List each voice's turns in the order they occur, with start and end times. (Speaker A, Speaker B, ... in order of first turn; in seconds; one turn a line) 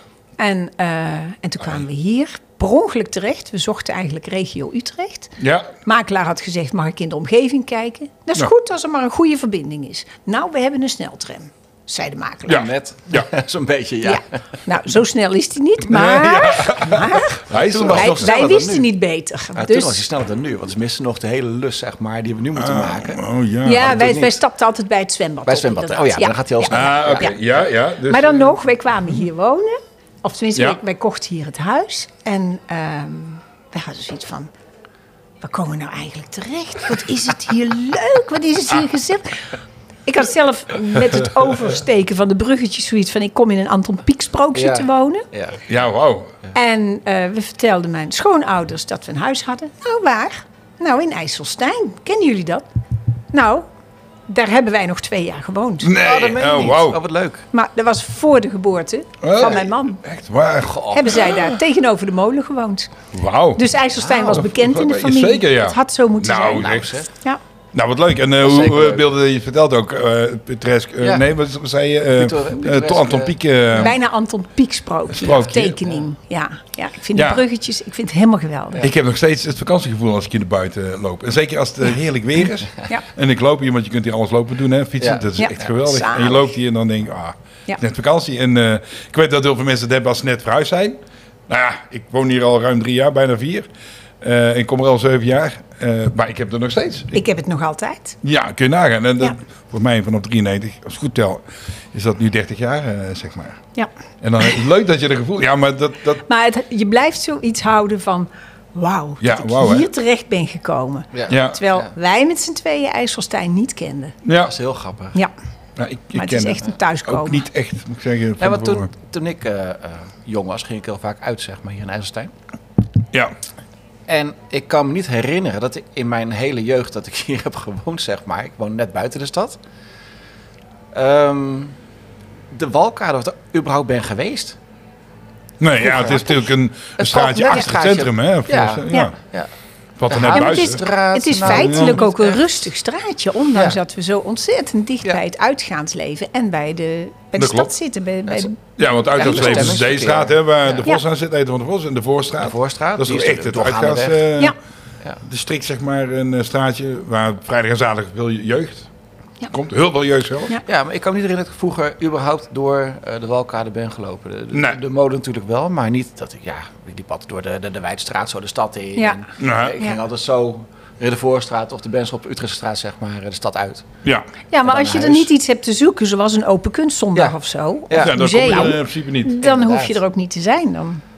Speaker A: 0.4-12.7
Speaker B: 5.4-5.7
Speaker B: 12.5-13.3
Speaker C: 12.5-14.4
Speaker A: 14.0-20.0
Speaker B: 15.9-18.4
Speaker C: 17.5-18.9
Speaker C: 19.6-24.4
Speaker B: 22.6-24.0
Speaker A: 23.6-27.3
Speaker C: 25.5-27.6
Speaker B: 26.7-28.6
Speaker A: 28.1-34.5
Speaker A: 35.4-39.5
Speaker A: 40.1-45.3
Speaker C: 44.5-45.6
Speaker B: 45.7-46.3
Speaker A: 46.5-52.7
Speaker A: 53.3-53.7
Speaker A: 54.3-55.9
Speaker B: 55.8-57.0
Speaker C: 56.0-57.5
Speaker A: 57.5-60.0
Speaker B: 59.2-61.6
Speaker C: 60.6-61.3
Speaker A: 60.9-62.9
Speaker B: 63.1-67.0
Speaker A: 63.6-67.4
Speaker C: 64.0-64.4
Speaker C: 66.4-67.1
Speaker B: 67.7-74.0
Speaker C: 68.4-69.0
Speaker C: 71.0-71.3
Speaker C: 72.2-73.4
Speaker A: 73.8-78.9
Speaker B: 75.1-75.8
Speaker B: 77.1-77.4
Speaker B: 78.8-93.7
Speaker C: 85.0-85.3
Speaker A: 85.4-86.5
Speaker B: 94.2-97.2
Speaker A: 97.1-98.2
Speaker B: 98.2-103.6
Speaker B: 104.2-106.2
Speaker A: 106.3-114.2
Speaker B: 109.2-109.9
Speaker C: 111.1-111.9
Speaker B: 111.3-111.6
Speaker B: 114.2-114.5
Speaker C: 114.4-115.2
Speaker B: 115.8-118.9
Speaker A: 116.2-117.5
Speaker C: 118.4-122.3
Speaker C: 124.1-129.6
Speaker C: 130.9-131.7
Speaker C: 132.5-134.6
Speaker B: 135.6-139.2
Speaker C: 135.8-139.5
Speaker B: 140.0-140.8
Speaker C: 140.1-142.7
Speaker A: 140.3-148.6
Speaker B: 141.4-142.0
Speaker B: 147.4-147.7
Speaker B: 148.8-154.5
Speaker C: 149.1-150.9
Speaker C: 152.4-154.3
Speaker B: 155.2-158.9
Speaker B: 159.5-160.6
Speaker C: 160.7-173.9
Speaker B: 164.5-164.8
Speaker A: 169.0-169.2
Speaker B: 169.4-169.8
Speaker A: 174.5-181.0
Speaker C: 174.6-175.3
Speaker C: 177.9-178.7
Speaker B: 178.0-179.4
Speaker C: 179.4-180.0